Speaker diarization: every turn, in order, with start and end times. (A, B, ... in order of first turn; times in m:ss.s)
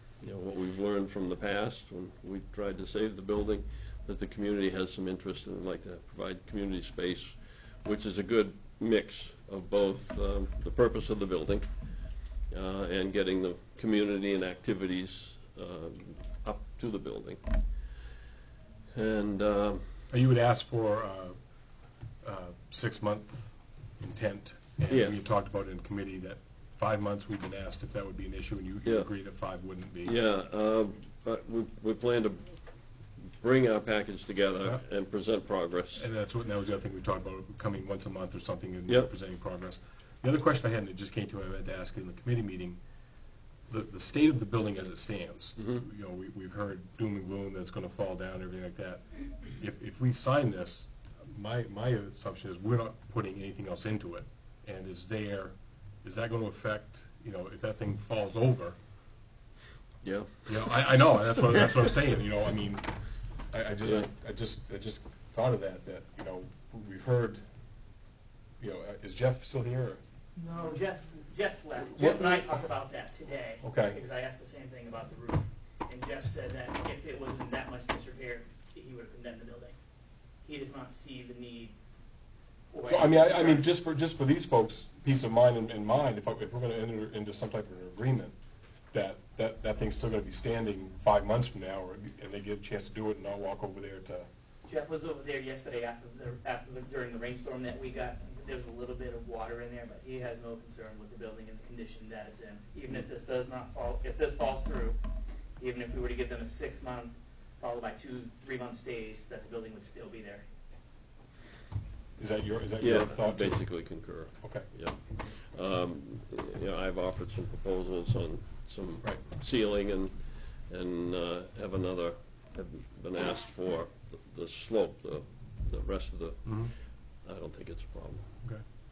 0:00.2-0:11.7 A
0:12.5-0:17.4 A
0:18.9-0:19.8 A
0:20.1-0:21.4 B
0:22.2-0:30.2 B
0:24.9-0:25.2 A
0:28.8-0:29.1 A
0:30.0-0:32.5 A
0:33.4-0:36.1 A
0:36.0-0:42.8 B
0:43.7-0:58.8 B
0:45.6-0:45.8 A
1:00.0-1:01.8 A
1:00.5-1:07.4 B
1:03.8-1:04.1 A
1:08.6-1:10.0 B
1:10.4-1:19.8 C
1:12.0-1:12.6 B
1:13.6-1:14.0 B
1:20.4-1:21.7 C
1:22.7-1:23.7 C
1:22.9-1:28.4 B
1:28.9-1:34.3 B
1:34.7-1:45.0 C
1:45.6-1:50.4 C
1:52.2-1:53.6 B
1:52.8-2:06.7 A
1:54.4-1:54.7 B
2:06.5-2:06.7 B
2:07.2-2:08.3 A